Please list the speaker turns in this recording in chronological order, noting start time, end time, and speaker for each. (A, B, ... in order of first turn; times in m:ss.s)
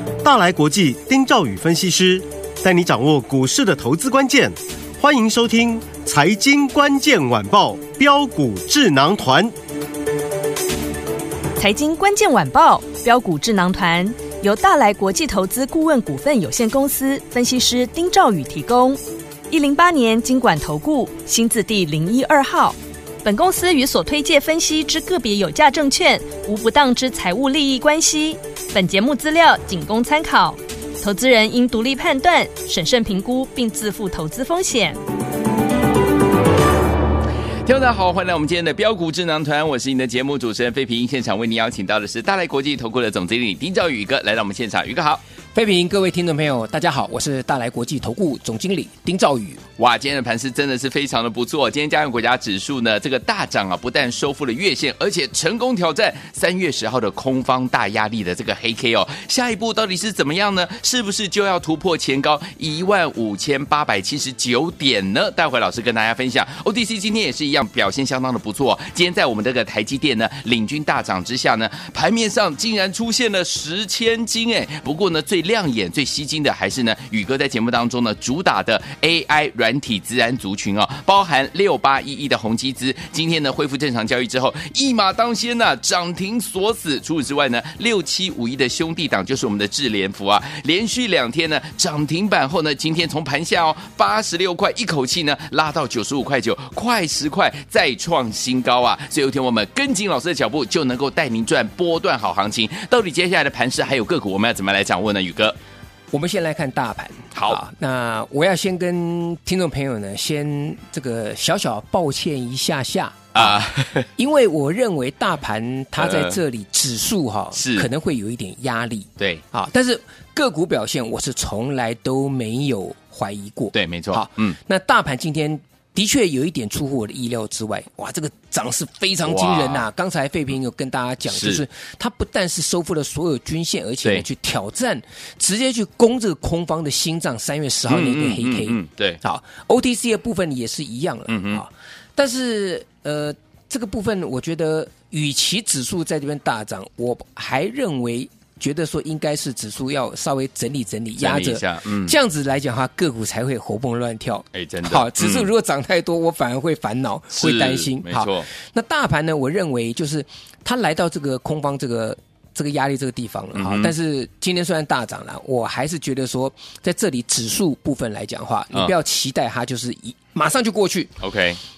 0:00.2-0:09.5 A
0:11.6-0:35.0 B
0:37.6-0:45.2 C
0:45.5-0:49.6 D
0:49.8-1:45.6 C
1:46.1-1:53.6 D
1:53.4-1:54.1 C
1:54.2-2:51.1 D
1:56.0-1:56.4 C
1:57.6-1:57.9 C
2:03.7-2:04.6 C
2:09.3-2:09.9 C
2:11.3-2:11.6 C
2:17.9-2:19.2 C
2:21.3-2:21.6 C
2:31.2-2:32.2 C
2:34.5-2:35.5 C
2:37.3-2:38.5 C
2:43.6-2:43.9 C
2:51.2-2:51.6 C